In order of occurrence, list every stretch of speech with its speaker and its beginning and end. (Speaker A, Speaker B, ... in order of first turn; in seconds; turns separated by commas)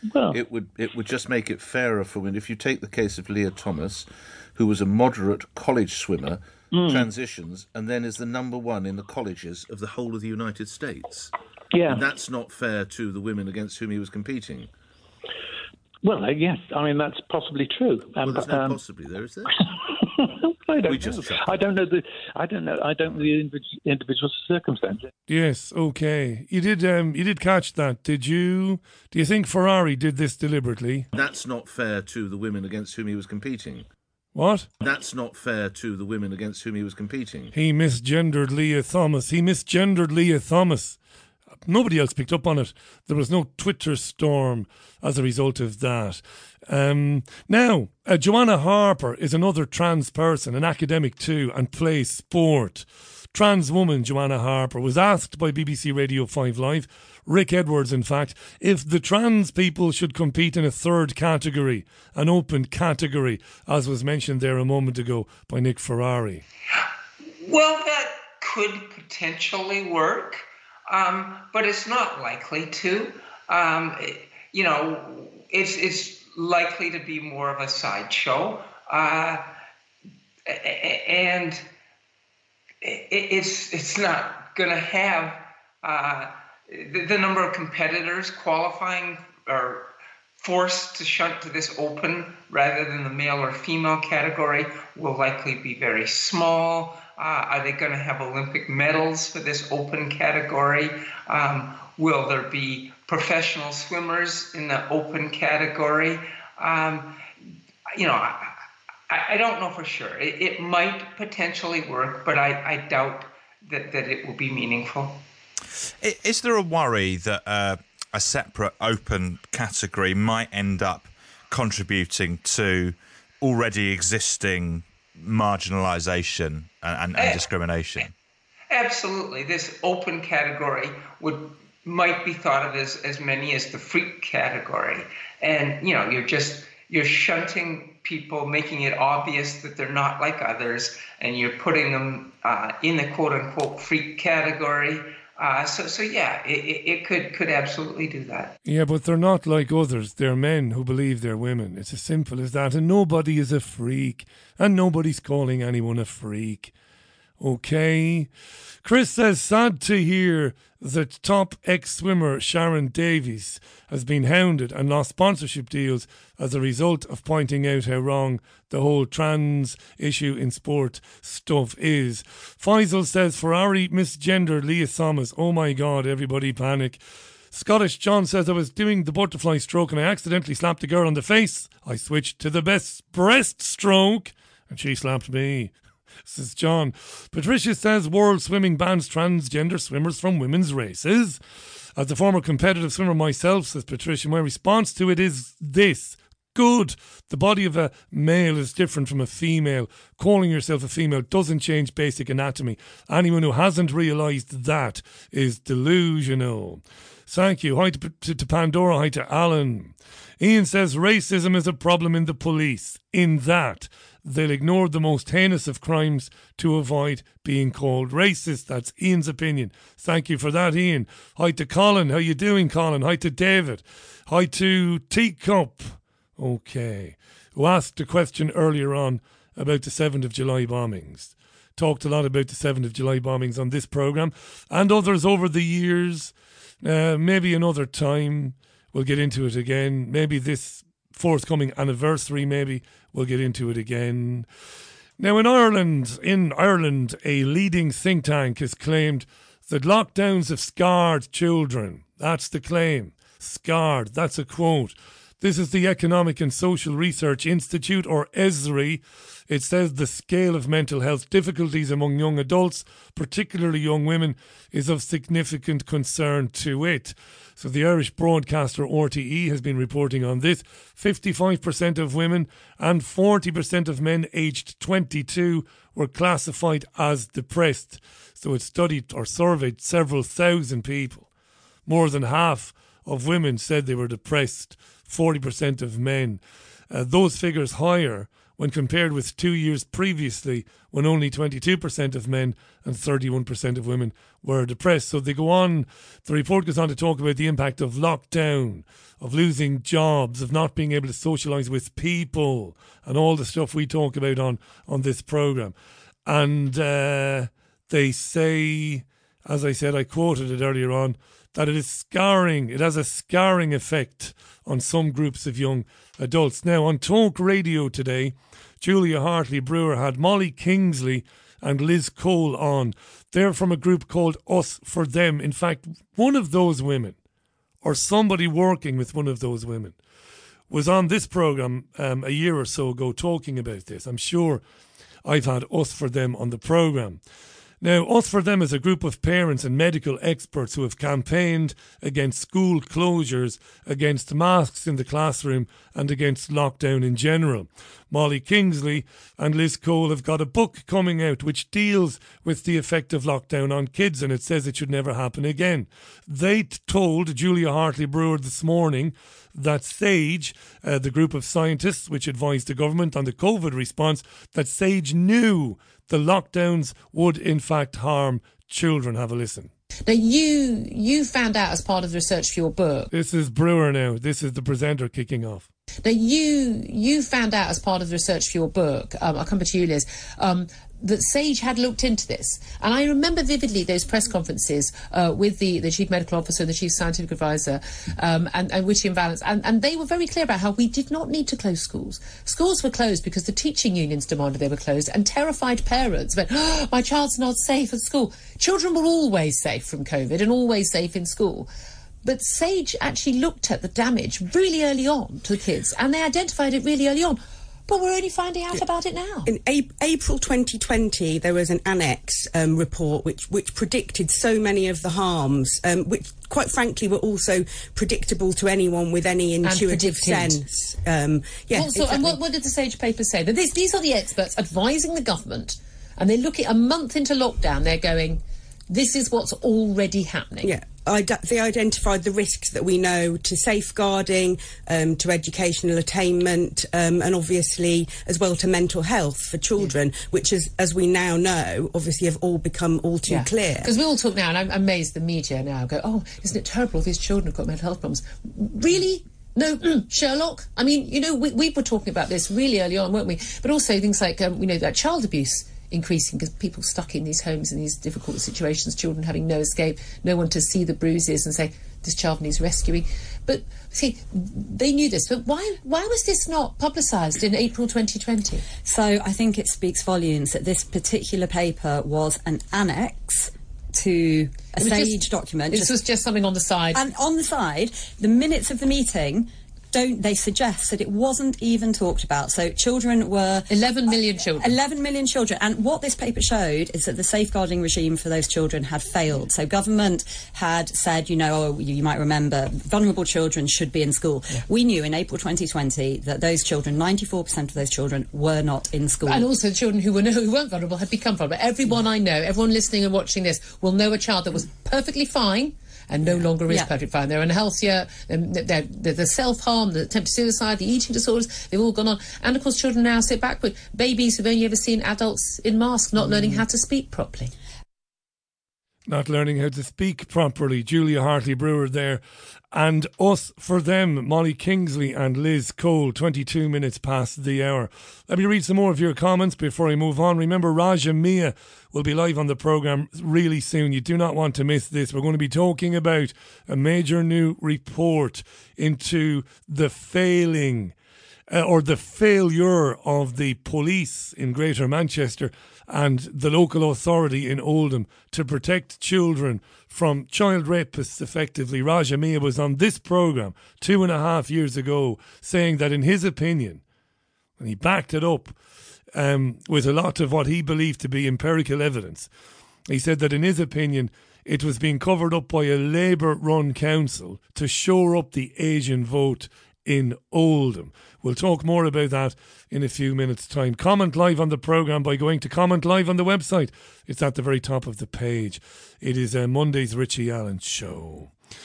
Speaker A: 0.1-0.4, Speaker B: 0.3-11.3, Speaker A: 6.7-7.1, Speaker A: 11.7-12.0, Speaker B: 11.8-14.7, Speaker A: 16.0-18.8, Speaker B: 18.2-19.6, Speaker A: 20.2-25.1, Speaker B: 20.8-21.6, Speaker C: 25.3-31.1, Speaker B: 31.1-33.9, Speaker C: 34.3-34.7, Speaker B: 34.8-37.5, Speaker C: 37.5-41.0, Speaker C: 41.6-66.4, Speaker D: 67.4-79.5, Speaker D: 80.5-81.6, Speaker D: 82.8-107.3, Speaker D: 107.9-108.6, Speaker D: 109.1-115.2, Speaker E: 116.0-128.1, Speaker D: 128.7-148.5, Speaker C: 148.6-156.7, Speaker C: 157.4-158.3, Speaker C: 158.8-185.7, Speaker C: 186.2-191.4, Speaker C: 191.9-244.5, Speaker C: 245.2-281.3, Speaker C: 281.9-305.7, Speaker C: 306.2-327.1, Speaker C: 327.8-330.0, Speaker C: 330.7-334.6, Speaker C: 335.2-337.2, Speaker C: 337.8-369.7, Speaker F: 370.1-373.1, Speaker C: 373.1-375.6, Speaker F: 376.0-401.7, Speaker F: 402.2-409.5, Speaker G: 409.4-422.4, Speaker F: 419.6-420.6, Speaker F: 421.7-430.7, Speaker G: 430.6-443.9, Speaker F: 443.3-468.6, Speaker H: 468.8-476.0, Speaker F: 474.8-477.0, Speaker H: 476.9-483.7, Speaker F: 483.7-484.7, Speaker H: 484.6-499.5, Speaker F: 499.2-517.5, Speaker H: 506.2-506.9, Speaker H: 516.2-516.6, Speaker C: 519.1-522.2, Speaker C: 522.7-540.9, Speaker C: 541.5-556.8, Speaker C: 557.6-558.6, Speaker C: 559.1-562.3, Speaker C: 562.9-581.3